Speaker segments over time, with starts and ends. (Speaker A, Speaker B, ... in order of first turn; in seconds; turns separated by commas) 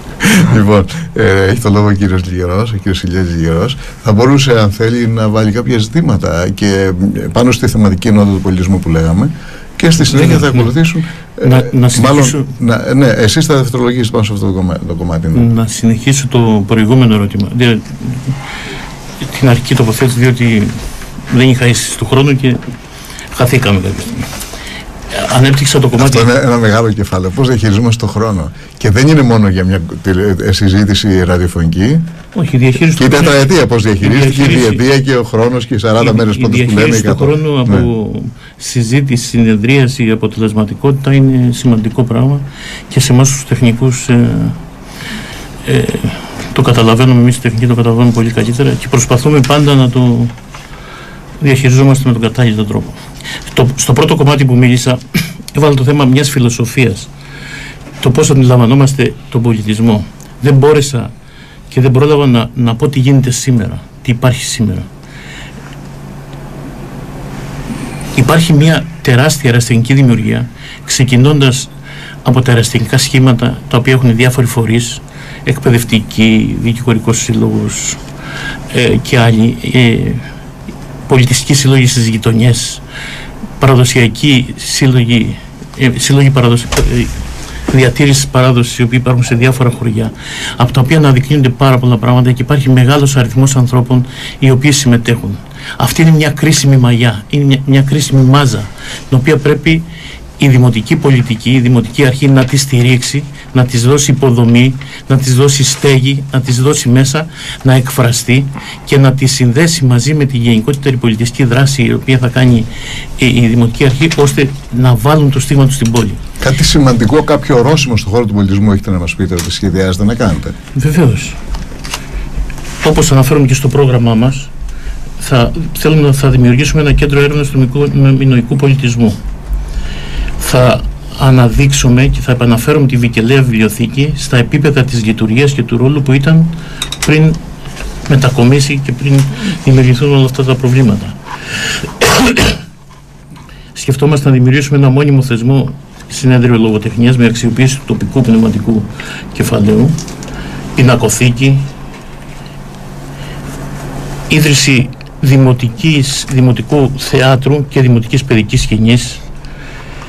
Speaker A: 0.2-15.5, Speaker B: 10.1-10.7, Speaker B: 11.4-12.5, Speaker B: 15.3-18.3, Speaker B: 19.2-20.8, Speaker B: 21.3-22.6, Speaker B: 23.3-24.3, Speaker B: 25.1-26.3, Speaker A: 26.0-32.0, Speaker B: 32.3-33.5, Speaker A: 33.0-37.9, Speaker B: 34.0-34.8, Speaker B: 36.0-44.6, Speaker B: 45.6-50.3, Speaker B: 51.4-53.0, Speaker B: 53.5-55.0, Speaker B: 55.5-57.1, Speaker B: 58.0-61.1, Speaker B: 61.7-64.9, Speaker B: 68.1-71.7, Speaker B: 72.2-78.0, Speaker B: 78.7-80.2, Speaker B: 81.1-82.8, Speaker B: 83.6-87.1, Speaker B: 87.7-99.8, Speaker B: 100.4-116.2, Speaker A: 116.4-120.5, Speaker B: 120.7-121.4, Speaker B: 122.8-124.5, Speaker B: 125.2-129.2, Speaker B: 130.4-137.4, Speaker B: 138.1-141.2, Speaker B: 142.0-142.5, Speaker B: 143.7-150.0, Speaker B: 150.8-151.7, Speaker B: 154.3-159.2